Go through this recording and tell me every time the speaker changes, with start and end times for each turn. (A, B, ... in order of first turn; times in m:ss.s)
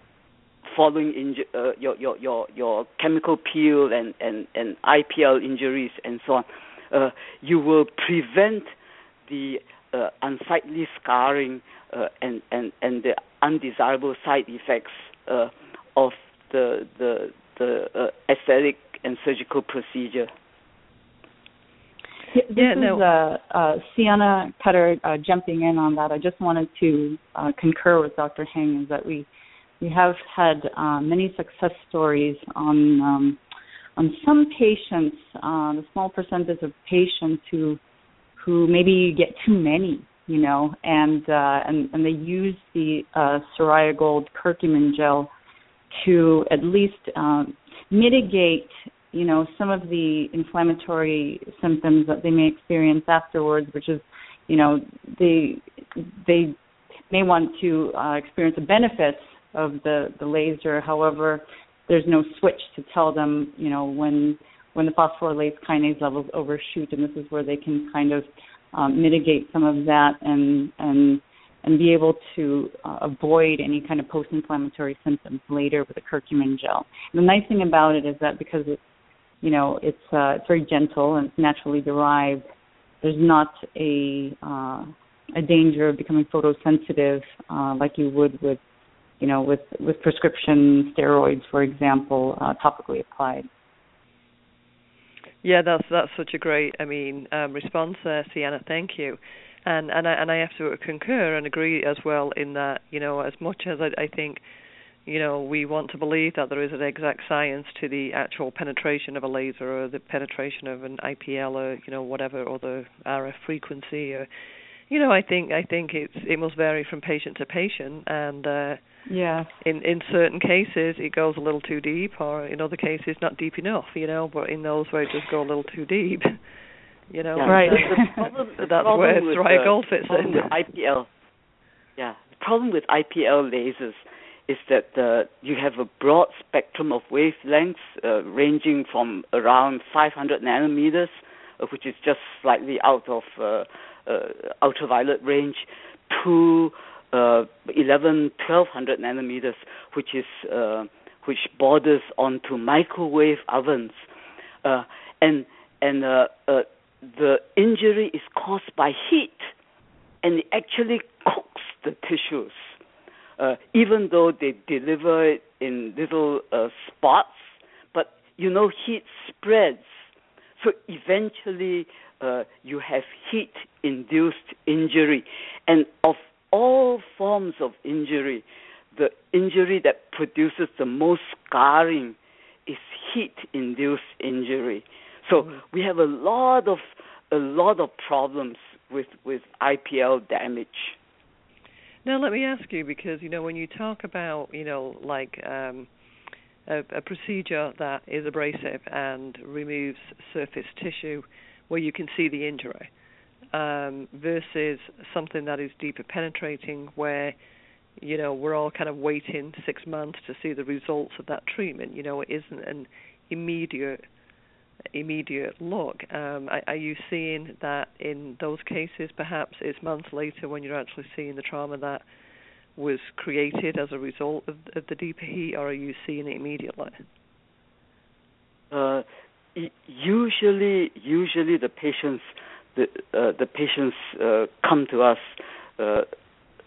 0:00.6-0:08.7 A
0:09.3-0:20.3 A
0:22.3-0:29.3 B
0:22.5-0:23.0 C
0:29.8-0:33.4 B
0:34.0-0:37.8 B
0:38.4-0:45.3 B
0:46.0-0:56.5 B
0:57.1-1:18.8 B
1:19.4-1:22.4 B
1:23.0-1:28.6 B
1:29.2-1:33.5 B
1:35.4-1:44.4 C
1:45.0-1:54.3 C
1:54.9-1:58.8 C
1:59.1-1:59.5 B
1:59.6-2:06.4 C
2:07.1-2:08.0 C
2:07.4-2:11.1 A
2:07.5-2:08.2 B
2:08.6-2:10.5 C
2:12.0-2:34.0 A
2:34.6-2:39.5 A
2:40.2-2:42.8 A
2:43.4-2:50.0 A
2:50.6-3:11.0 A
3:12.0-3:15.9 C
3:16.7-3:22.9 C
3:23.5-3:27.4 C
3:28.0-3:34.0 C
3:34.9-3:42.0 C
3:42.8-3:47.0 C
3:48.7-3:56.1 A